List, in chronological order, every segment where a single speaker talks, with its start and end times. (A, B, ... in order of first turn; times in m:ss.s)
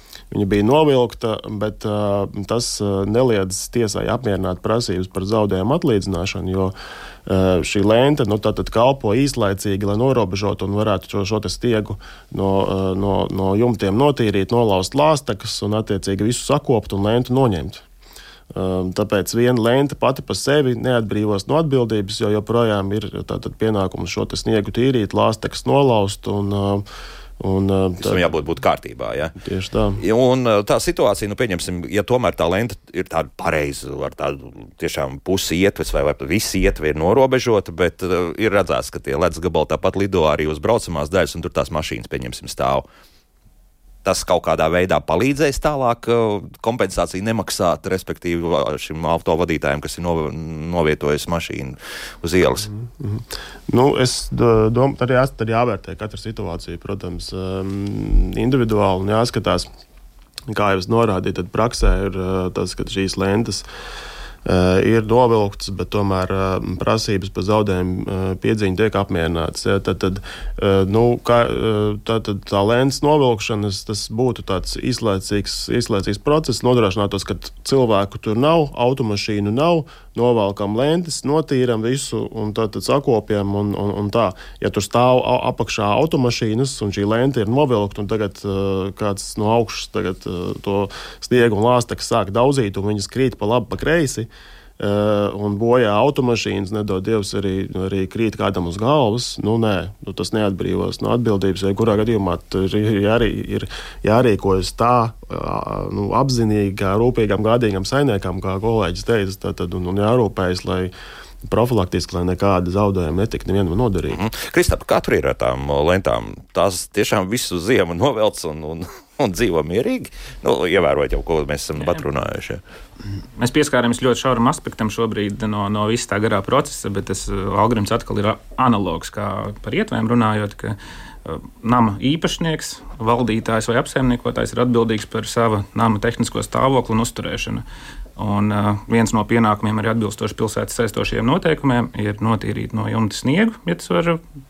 0:00.3-0:06.7 A
0:07.2-0:17.8 A
0:18.5-0:26.8 A
0:27.4-0:28.3 A
0:28.0-0:29.4 B
0:29.4-0:30.0 A
0:30.0-0:42.8 B
0:44.0-0:52.7 B
0:52.8-0:59.7 A
1:00.5-1:03.6 A
1:04.4-1:50.9 A
1:51.4-1:54.2 A
1:54.1-2:02.6 B
2:03.4-2:17.6 C
2:18.2-2:24.2 C